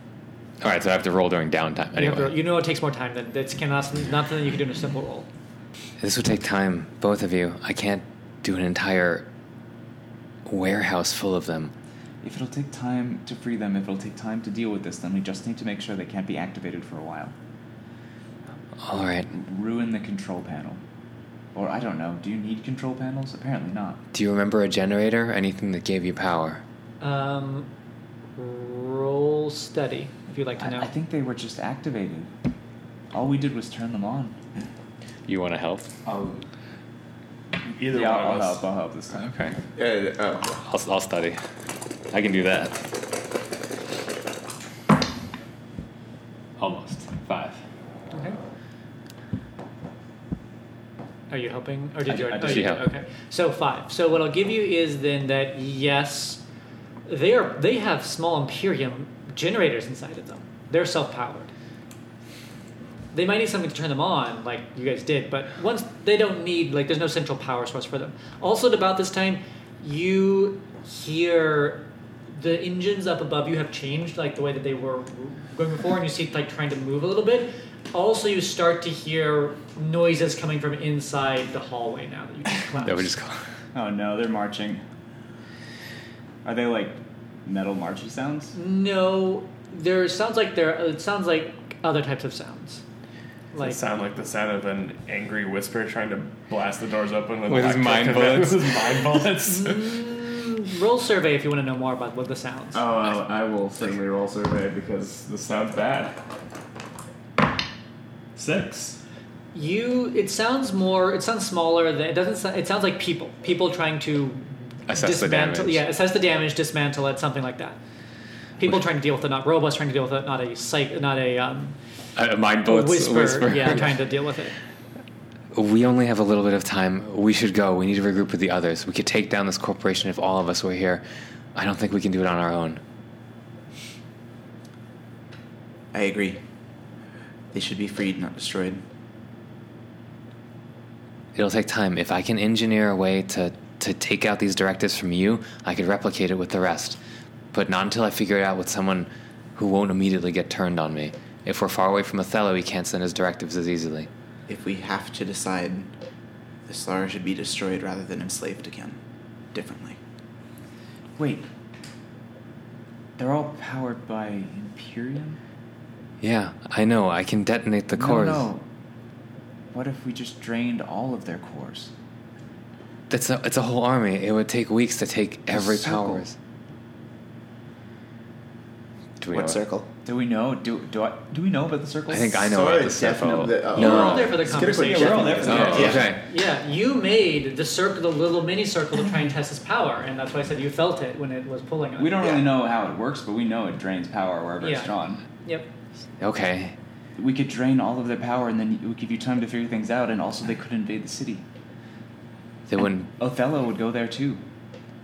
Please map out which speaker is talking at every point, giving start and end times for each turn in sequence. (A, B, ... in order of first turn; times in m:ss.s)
0:00.6-0:02.4 A
0:02.0-0:05.3 B
0:06.0-0:09.3 A
0:10.5-0:11.7 A
0:12.2-0:17.3 C
0:18.8-0:19.3 A
0:19.3-0:20.8 C
0:21.5-0:24.0 C
0:24.1-0:26.6 A
0:27.0-0:27.7 B
0:28.4-0:30.9 B
0:30.6-0:32.3 C
0:33.1-0:34.4 C
0:35.3-0:35.9 A
0:36.1-0:36.4 D
0:37.7-0:38.7 D
0:37.9-0:39.3 C
0:39.2-0:39.6 A
0:39.8-0:40.6 E
0:40.6-0:41.4 A
0:42.1-0:43.0 A
0:46.6-0:47.6 A
0:48.1-0:48.4 B
0:51.3-0:56.4 B
0:52.1-0:52.8 C
0:52.4-0:52.8 A
0:57.1-1:01.5 B
1:03.1-1:23.1 B
1:22.8-1:23.4 A
1:23.7-1:24.8 C
1:26.4-1:28.5 C
1:28.5-1:32.8 B
1:33.5-1:33.8 B
1:33.6-1:39.9 D
1:37.5-1:39.2 A
1:39.4-1:42.8 B
1:42.7-1:46.2 D
1:48.4-1:49.0 D
1:49.5-1:57.8 B
1:54.9-1:55.8 A
1:58.6-2:01.8 B
2:02.2-2:04.0 A
2:02.7-2:04.6 B
2:05.5-2:11.0 A
2:11.6-2:12.8 A
2:15.9-2:16.4 E
2:17.5-2:18.8 E
2:21.4-2:27.0 A
2:27.5-2:34.1 A
2:34.5-2:35.9 E
2:36.7-2:39.0 E
2:39.5-2:40.0 E
2:41.2-2:41.5 C
2:43.2-2:45.4 C
2:46.2-2:48.5 A
2:48.0-2:48.6 C
2:49.7-2:51.9 C
2:53.1-2:56.4 A
2:55.5-2:56.2 C
2:59.2-2:59.6 A
2:59.3-2:59.9 E
3:00.0-3:02.4 C
3:02.1-3:04.4 A
3:02.4-3:06.1 E
3:03.8-3:12.2 B
3:04.5-3:06.0 C
3:05.4-3:06.2 A
3:12.0-3:15.2 C
3:12.2-3:12.5 E
3:14.6-3:14.9 B
3:16.2-3:16.8 A
3:17.2-3:21.4 C
3:22.7-3:23.1 A
3:23.1-3:24.4 C